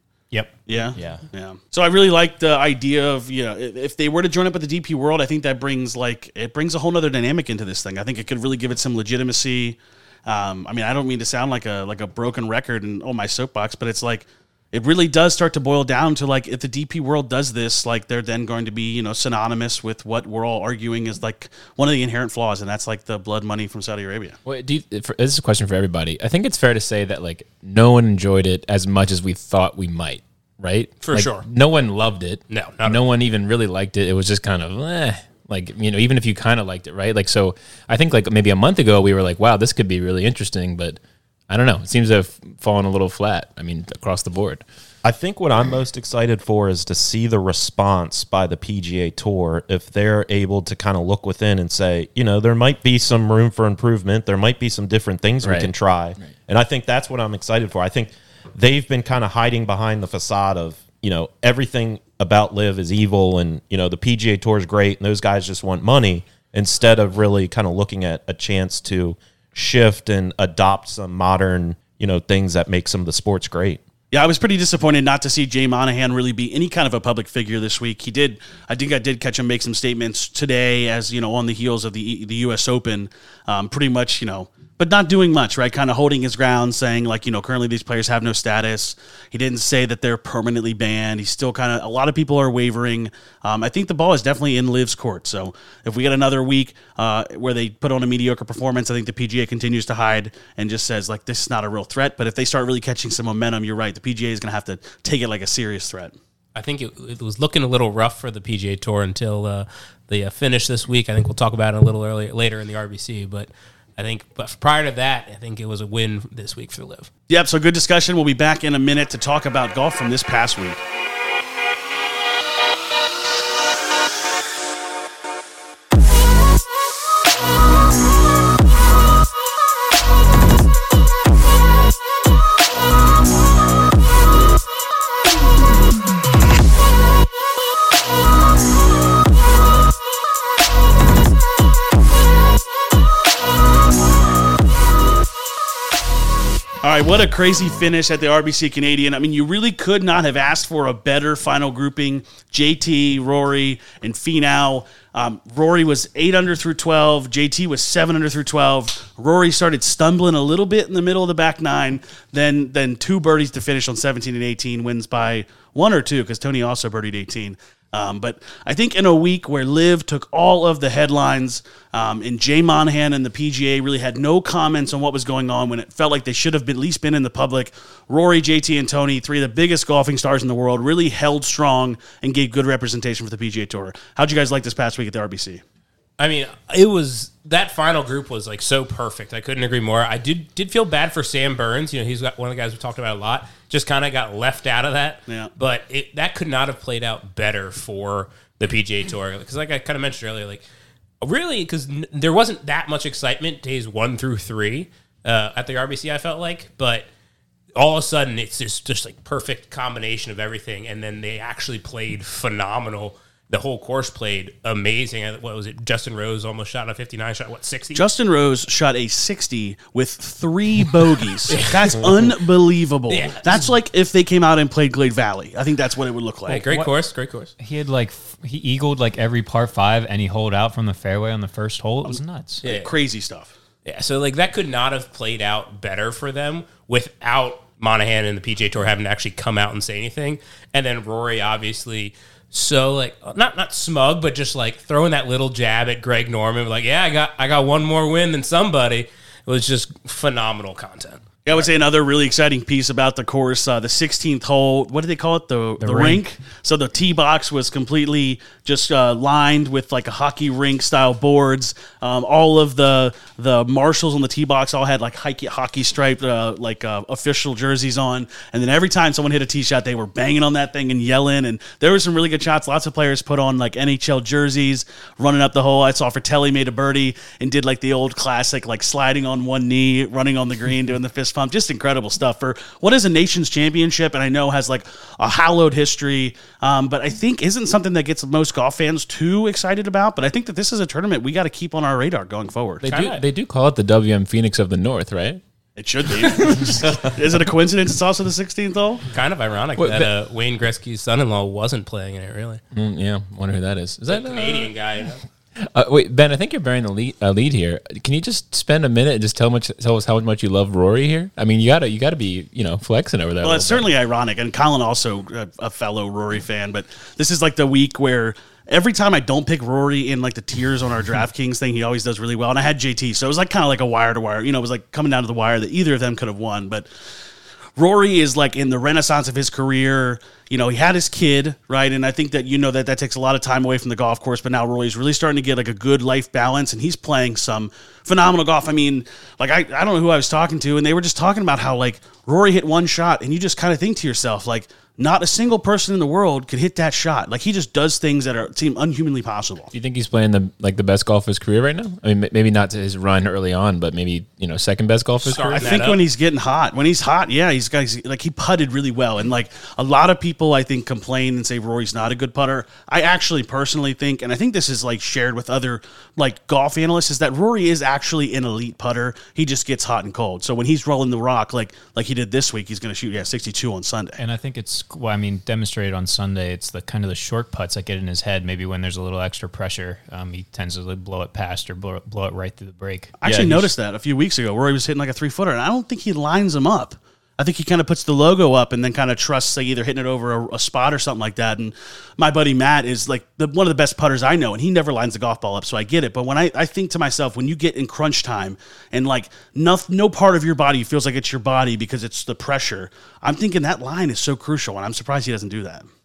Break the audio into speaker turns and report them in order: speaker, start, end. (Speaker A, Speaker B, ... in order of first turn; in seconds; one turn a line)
Speaker A: 0.3-0.6
Speaker B: 0.7-24.4
Speaker C: 0.9-1.2
Speaker C: 24.4-44.6
Speaker D: 31.0-31.4
Speaker D: 32.5-33.0
Speaker E: 45.0-73.8
Speaker C: 55.4-56.3
Speaker B: 74.1-106.1
Speaker D: 106.5-117.1
Speaker B: 117.3-120.8
Speaker B: 146.8-185.6
Speaker D: 186.2-200.6
Speaker D: 201.2-207.1
Speaker D: 207.8-218.1
Speaker B: 217.9-226.7
Speaker D: 221.5-222.3
Speaker D: 223.1-223.7
Speaker D: 226.5-227.5
Speaker A: 226.6-226.9
Speaker A: 227.6-232.6
Speaker B: 232.0-233.5
Speaker D: 232.6-232.9
Speaker D: 233.8-251.2
Speaker B: 251.4-292.8
Speaker C: 255.8-256.2
Speaker C: 292.8-295.4
Speaker D: 292.9-293.2
Speaker B: 295.8-299.0
Speaker C: 296.1-297.1
Speaker D: 299.1-302.6
Speaker C: 299.8-300.1
Speaker C: 302.7-304.7
Speaker D: 304.1-305.2
Speaker C: 305.7-313.9
Speaker B: 313.4-326.9
Speaker B: 327.8-349.7
Speaker C: 349.7-355.8
Speaker D: 355.2-356.0
Speaker B: 355.5-374.2
Speaker A: 374.2-383.1
Speaker B: 383.2-405.9
Speaker E: 383.2-383.7